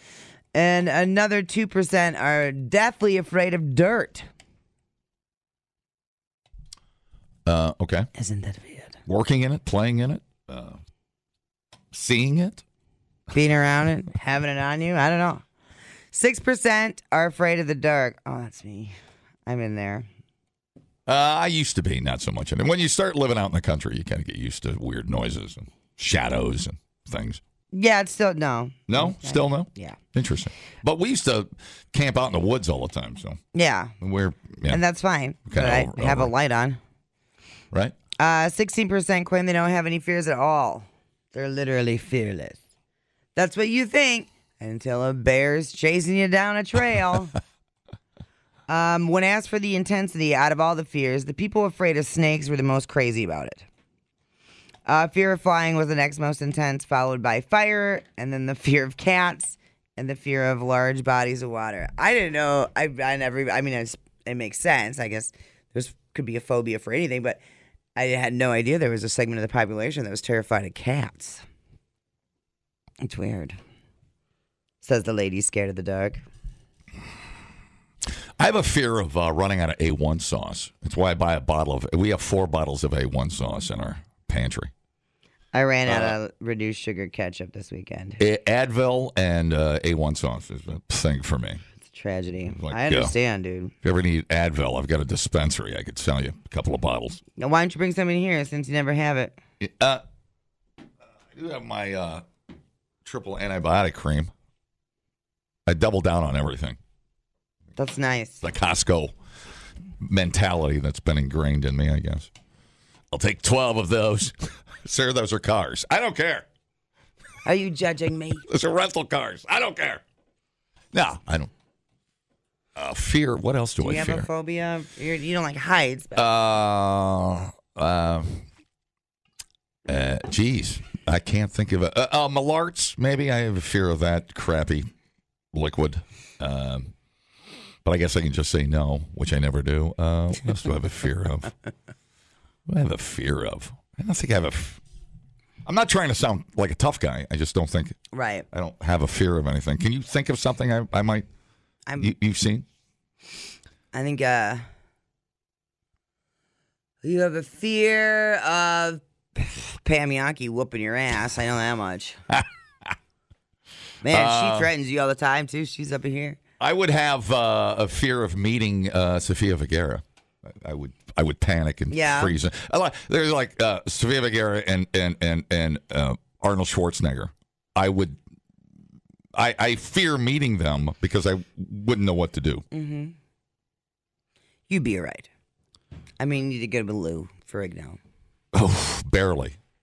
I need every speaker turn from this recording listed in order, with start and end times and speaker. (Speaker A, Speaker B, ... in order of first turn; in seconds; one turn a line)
Speaker A: 0.5-4.3
Speaker B: 7.5-8.1
Speaker A: 8.2-9.0
Speaker B: 9.1-10.8
Speaker B: 11.9-12.6
Speaker A: 13.3-15.4
Speaker A: 16.1-18.9
Speaker A: 19.4-20.1
Speaker B: 21.1-27.4
Speaker A: 27.7-30.0
Speaker B: 28.9-33.4
Speaker A: 33.5-33.9
Speaker B: 34.0-34.8
Speaker A: 34.7-36.8
Speaker B: 35.5-36.3
Speaker A: 38.2-42.6
Speaker A: 43.4-47.4
Speaker A: 48.7-53.6
Speaker A: 54.9-67.4
Speaker A: 68.0-71.4
Speaker A: 73.0-73.6
Speaker A: 74.8-76.2
Speaker B: 78.4-84.7
Speaker A: 85.5-88.2
Speaker B: 85.9-86.2
Speaker B: 88.2-91.6
Speaker A: 91.8-93.7
Speaker B: 92.5-93.1
Speaker B: 93.8-97.2
Speaker A: 97.4-99.4
Speaker B: 99.6-100.0
Speaker B: 101.3-102.2
Speaker B: 103.0-104.3
Speaker B: 105.7-106.8
Speaker A: 107.8-108.4
Speaker B: 108.4-109.1
Speaker B: 110.0-112.3
Speaker B: 113.1-116.4
Speaker A: 117.4-118.4
Speaker B: 118.5-120.0
Speaker B: 120.9-121.5
Speaker B: 122.8-124.3
Speaker A: 123.8-126.3
Speaker B: 126.2-128.4
Speaker B: 129.9-134.9
Speaker B: 135.5-136.9
Speaker B: 137.8-141.5
Speaker B: 142.7-144.8
Speaker B: 145.6-148.0
Speaker A: 148.1-148.4
Speaker B: 148.5-151.3
Speaker A: 151.9-152.1
Speaker B: 152.0-152.6
Speaker A: 153.9-154.6
Speaker A: 157.0-162.2
Speaker B: 162.3-162.9
Speaker A: 164.0-166.4
Speaker B: 164.0-164.7
Speaker B: 166.6-178.2
Speaker A: 171.9-172.3
Speaker B: 179.3-182.6
Speaker A: 182.7-183.2
Speaker A: 184.7-185.3
Speaker A: 186.2-188.0
Speaker B: 188.5-189.6